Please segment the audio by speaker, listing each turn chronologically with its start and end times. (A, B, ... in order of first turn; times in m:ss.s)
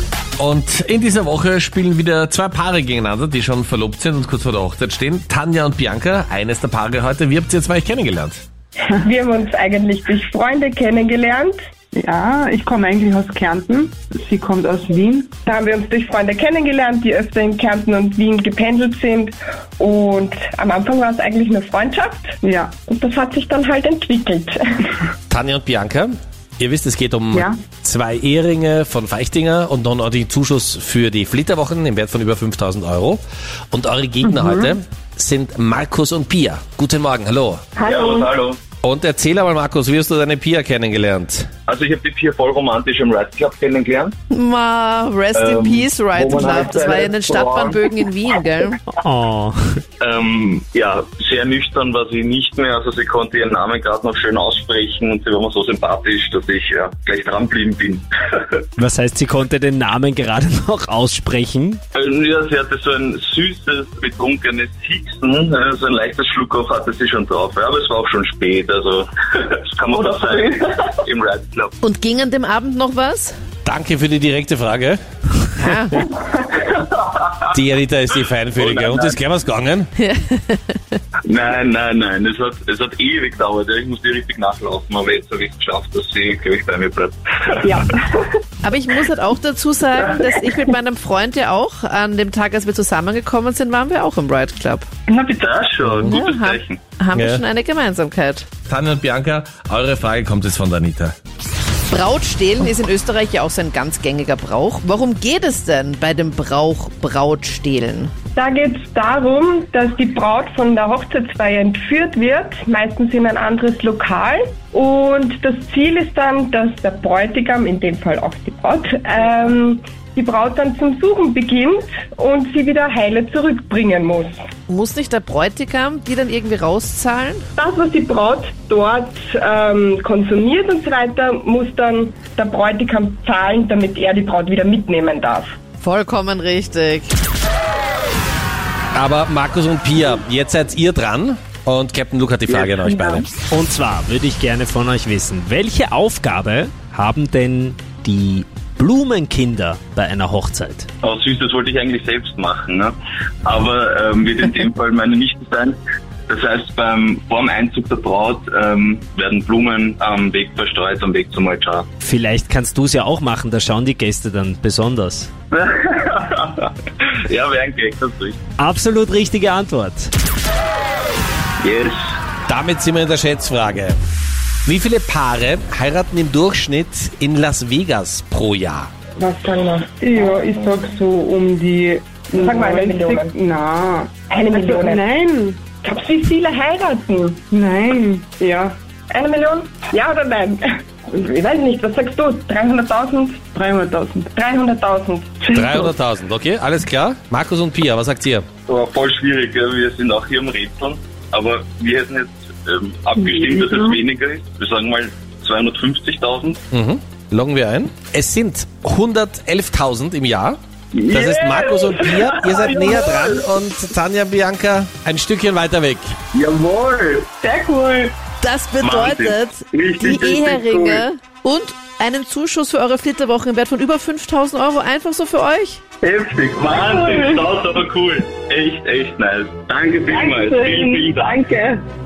0:00.4-0:08.4 A
0:09.0-0:11.6 B
0:11.9-0:15.3 C
0:15.5-0:24.6 B
0:22.4-0:22.8 C
0:25.3-0:37.6 A
0:27.3-0:27.6 C
0:34.2-0:34.7 C
0:37.8-0:38.3 B
0:37.8-0:38.6 D
0:38.8-0:41.5 A
0:41.7-0:44.2 D
0:44.3-0:48.8 E
0:45.3-0:47.8 D
0:48.9-0:49.8 F
0:50.0-0:58.6 D
0:58.8-1:01.8 F
1:01.9-1:11.7 D
1:11.8-1:13.4 E
1:13.7-1:15.0 A
1:15.6-1:16.1 E
1:16.7-1:17.2 D
1:17.5-1:19.9 A
1:18.6-1:19.2 D
1:20.0-1:21.0 E
1:21.3-1:27.9 D
1:28.6-1:34.9 E
1:35.1-1:36.8 D
1:35.8-1:36.2 A
1:36.1-1:38.5 E
1:37.1-1:37.4 A
1:38.7-1:41.2 A
1:41.9-1:48.1 E
1:48.4-2:04.4 B
2:04.7-2:07.4 E
2:07.6-2:15.5 B
2:15.8-2:17.1 E
2:19.0-2:23.3 A
2:22.5-2:23.2 D
2:23.5-2:30.9 F
2:31.0-2:41.9 D
2:42.0-2:45.3 F
2:45.5-2:48.4 D
2:48.6-2:50.1 F
2:51.6-2:52.2 D
2:52.5-2:54.0 A
2:54.7-2:58.9 A
2:59.2-2:59.9 B
3:00.0-3:05.6 C
3:02.4-3:03.3 B
3:04.3-3:05.0 B
3:05.8-3:07.4 B
3:07.5-3:08.8 C
3:09.1-3:13.4 B
3:13.5-3:14.3 C
3:14.4-3:15.5 B
3:15.5-3:15.9 C
3:15.5-3:18.5 A
3:18.7-3:26.6 D
3:23.3-3:23.6 C
3:26.7-3:30.6 A
3:30.9-3:33.4 D
3:31.1-3:36.2 A
3:36.4-3:37.5 D
3:38.4-3:45.8 E
3:38.8-3:41.0 D
3:46.0-3:51.4 D